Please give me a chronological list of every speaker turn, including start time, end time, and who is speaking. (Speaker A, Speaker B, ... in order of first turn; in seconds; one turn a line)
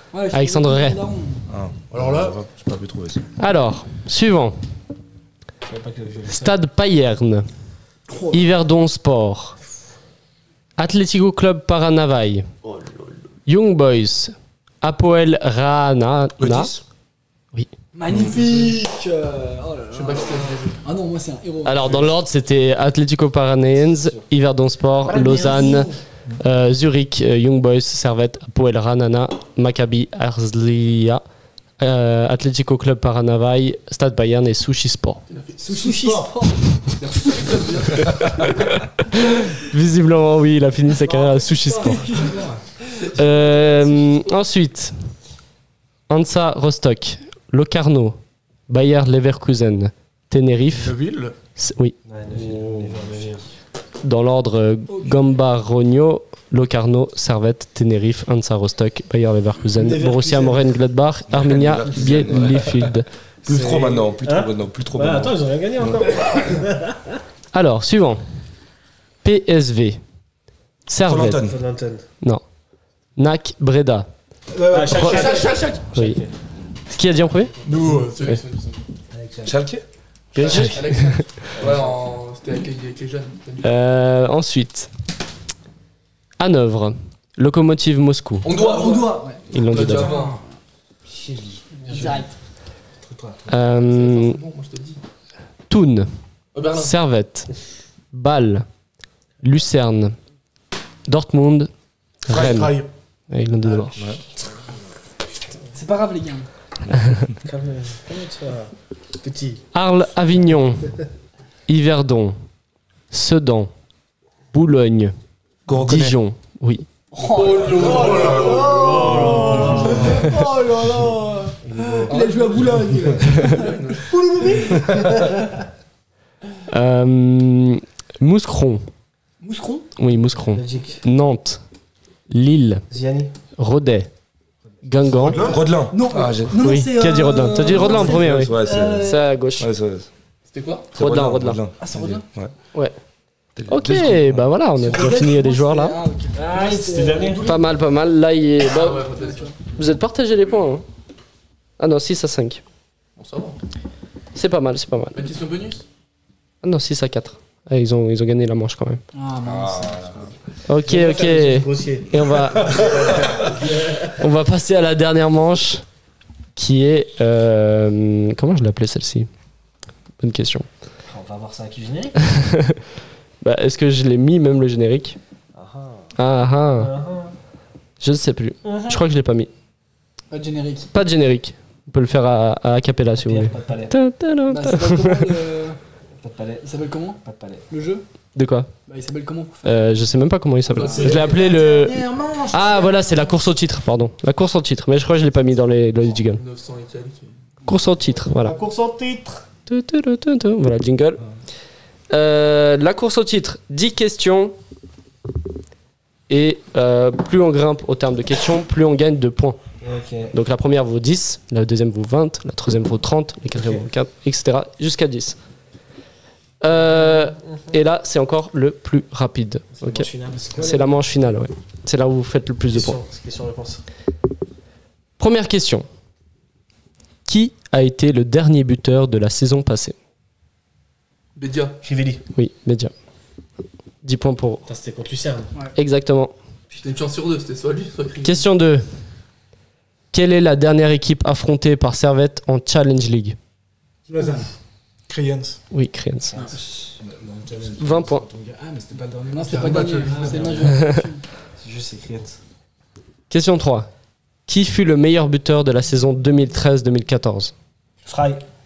Speaker A: 0.1-1.5
Speaker B: 0.3-1.0
Speaker C: 1.5-3.2
Speaker D: 1.9-2.4
Speaker B: 3.4-4.6
Speaker E: 5.6-6.6
Speaker B: 6.3-7.5
Speaker A: 8.1-8.4
Speaker B: 8.3-9.6
Speaker B: 10.8-12.5
Speaker B: 13.5-16.7
Speaker C: 16.4-16.8
Speaker A: 17.9-22.0
Speaker F: 18.3-18.7
Speaker F: 19.9-20.8
Speaker B: 21.6-31.2
Speaker E: 25.1-26.0
Speaker B: 31.8-35.2
Speaker F: 35.3-35.9
Speaker A: 35.6-36.6
Speaker G: 35.6-36.3
Speaker F: 37.0-38.5
Speaker B: 38.4-42.1
Speaker A: 41.1-42.6
Speaker G: 42.0-42.4
Speaker B: 43.1-45.0
Speaker B: 46.1-48.2
Speaker B: 48.7-51.0
Speaker D: 50.7-51.4
Speaker B: 51.6-52.0
Speaker E: 52.0-53.5
Speaker G: 52.5-52.9
Speaker B: 54.0-63.1
Speaker A: 54.9-55.4
Speaker E: 59.8-60.7
Speaker C: 61.3-62.9
Speaker C: 63.4-66.0
Speaker E: 63.5-67.2
Speaker B: 67.5-68.2
Speaker B: 69.2-70.0
Speaker B: 70.9-71.5
Speaker C: 71.1-71.6
Speaker E: 71.4-72.0
Speaker B: 73.2-74.1
Speaker G: 74.5-75.5
Speaker E: 74.7-76.3
Speaker B: 74.9-75.4
Speaker F: 75.0-75.8
Speaker B: 75.9-76.2
Speaker B: 76.9-77.5
Speaker D: 77.6-78.4
Speaker F: 77.7-78.8
Speaker G: 79.1-79.6
Speaker C: 79.5-79.8
Speaker E: 80.3-80.9
Speaker F: 80.3-83.8
Speaker B: 80.4-81.2
Speaker B: 83.6-84.9
Speaker B: 86.4-88.5
Speaker F: 88.4-90.4
Speaker A: 88.5-89.4
Speaker B: 89.5-90.2
Speaker G: 89.8-90.4
Speaker G: 91.1-92.1
Speaker A: 91.8-92.3
Speaker E: 91.9-92.2
Speaker G: 93.0-93.5
Speaker B: 93.5-94.4
Speaker F: 93.7-95.0
Speaker B: 95.7-96.1
Speaker F: 96.5-97.0
Speaker B: 96.8-97.5
Speaker B: 98.1-98.7
Speaker B: 99.4-100.2
Speaker B: 101.1-101.7
Speaker B: 102.2-104.0
Speaker D: 102.3-102.9
Speaker A: 105.7-106.5
Speaker E: 107.4-109.6
Speaker B: 109.7-110.9
Speaker B: 111.7-112.4
Speaker B: 113.1-113.7
Speaker B: 114.5-115.1
Speaker C: 115.7-116.2
Speaker B: 115.8-116.9
Speaker A: 117.1-125.0
Speaker F: 117.2-119.0
Speaker D: 117.8-119.5
Speaker E: 118.6-120.4
Speaker E: 121.6-123.1
Speaker F: 122.1-124.2
Speaker E: 124.1-125.6
Speaker B: 126.7-128.8
Speaker A: 129.4-129.9
Speaker B: 130.0-131.6
Speaker E: 130.5-131.0
Speaker B: 132.3-132.9
Speaker E: 132.9-133.3
Speaker B: 133.6-134.1
Speaker B: 134.8-135.5
Speaker D: 135.2-135.6
Speaker C: 135.3-136.6
Speaker A: 135.8-139.3
Speaker B: 136.6-139.7
Speaker C: 137.5-140.1
Speaker F: 140.5-140.9
Speaker C: 140.9-142.5
Speaker B: 141.0-141.6
Speaker A: 141.8-142.2
Speaker C: 143.6-144.5
Speaker B: 143.7-146.0
Speaker A: 144.8-147.7
Speaker E: 146.3-147.5
Speaker B: 147.4-149.1
Speaker F: 148.6-149.5
Speaker A: 149.1-149.5
Speaker B: 149.8-150.8
Speaker B: 151.8-152.6
Speaker F: 153.2-153.6
Speaker B: 154.3-155.2
Speaker F: 155.2-155.8
Speaker B: 156.6-159.0
Speaker A: 159.1-160.3
Speaker C: 159.4-160.2
Speaker B: 160.7-162.8
Speaker E: 160.8-164.2
Speaker C: 162.7-163.5
Speaker B: 164.2-165.8
Speaker B: 166.6-169.3
Speaker B: 170.2-170.7
Speaker E: 171.1-172.2
Speaker B: 172.3-172.8
Speaker B: 173.4-175.2
Speaker E: 175.5-176.1
Speaker B: 176.2-176.9
Speaker E: 176.8-177.4
Speaker B: 178.0-179.5
Speaker E: 178.6-179.0
Speaker A: 180.3-180.9
Speaker B: 180.9-185.4
Speaker E: 183.2-184.0
Speaker A: 184.5-185.8
Speaker E: 186.2-187.7
Speaker A: 186.6-188.0
Speaker B: 188.3-188.7
Speaker A: 188.9-190.2
Speaker B: 189.6-196.4
Speaker F: 190.7-191.2
Speaker G: 190.8-193.5
Speaker A: 190.8-191.2
Speaker F: 196.3-197.3
Speaker B: 197.7-198.6
Speaker E: 198.2-199.4
Speaker B: 199.7-201.2
Speaker B: 202.1-204.6
Speaker B: 206.3-209.6
Speaker E: 209.8-210.3
Speaker B: 210.3-215.4
Speaker E: 213.6-213.9
Speaker B: 216.6-223.0
Speaker E: 216.7-217.8
Speaker E: 219.7-220.8
Speaker G: 220.3-220.9
Speaker E: 222.7-223.8
Speaker B: 225.2-225.9
Speaker B: 227.3-229.9
Speaker F: 231.3-231.8
Speaker E: 231.8-232.2
Speaker B: 232.3-232.9
Speaker B: 234.0-234.7
Speaker E: 234.7-235.5
Speaker B: 235.8-236.3
Speaker F: 236.7-238.5
Speaker B: 238.2-238.8
Speaker B: 240.1-243.4
Speaker G: 244.1-244.5
Speaker D: 245.1-245.6
Speaker B: 245.7-246.4
Speaker G: 246.8-250.9
Speaker B: 247.8-248.2
Speaker A: 249.3-251.2
Speaker D: 249.5-250.7
Speaker E: 251.6-252.4
Speaker B: 253.3-253.9
Speaker B: 254.5-257.5
Speaker E: 258.0-258.4